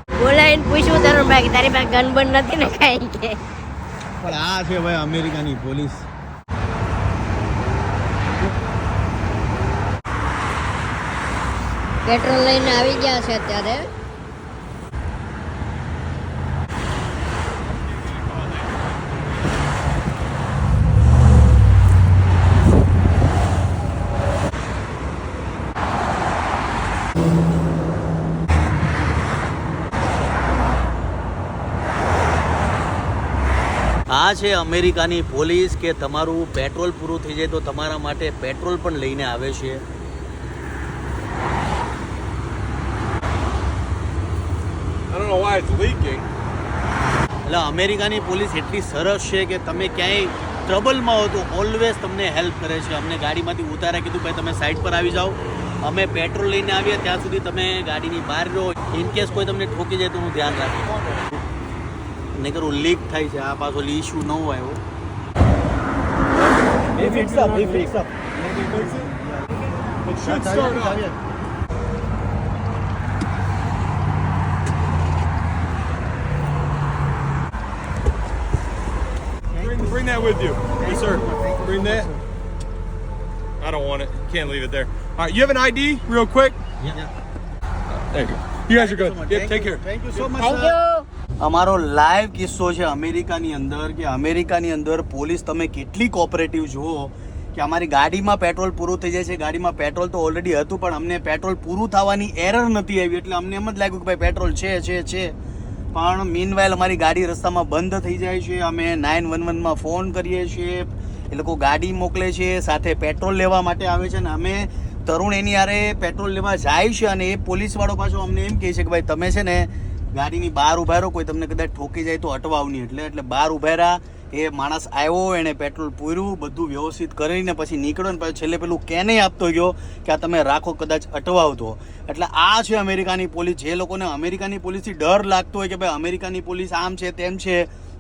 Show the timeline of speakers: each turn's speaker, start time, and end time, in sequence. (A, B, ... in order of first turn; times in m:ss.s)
0:00.2-0:03.4 A
0:04.2-0:06.0 B
0:12.1-0:13.9 A
0:34.1-0:39.8 B
0:45.1-0:46.2 C
0:47.5-1:01.0 B
1:02.4-1:04.8 B
1:07.0-1:07.9 C
1:07.0-1:08.0 B
1:08.6-1:09.0 B
1:08.7-1:09.0 C
1:10.0-1:11.1 C
1:10.2-1:11.1 B
1:19.5-1:22.1 C
1:19.6-1:20.0 B
1:20.8-1:22.2 B
1:23.6-1:26.6 C
1:26.8-1:27.1 B
1:27.9-1:29.8 C
1:28.7-1:30.8 B
1:30.4-1:31.0 A
1:31.4-1:45.3 B
1:45.9-2:17.7 B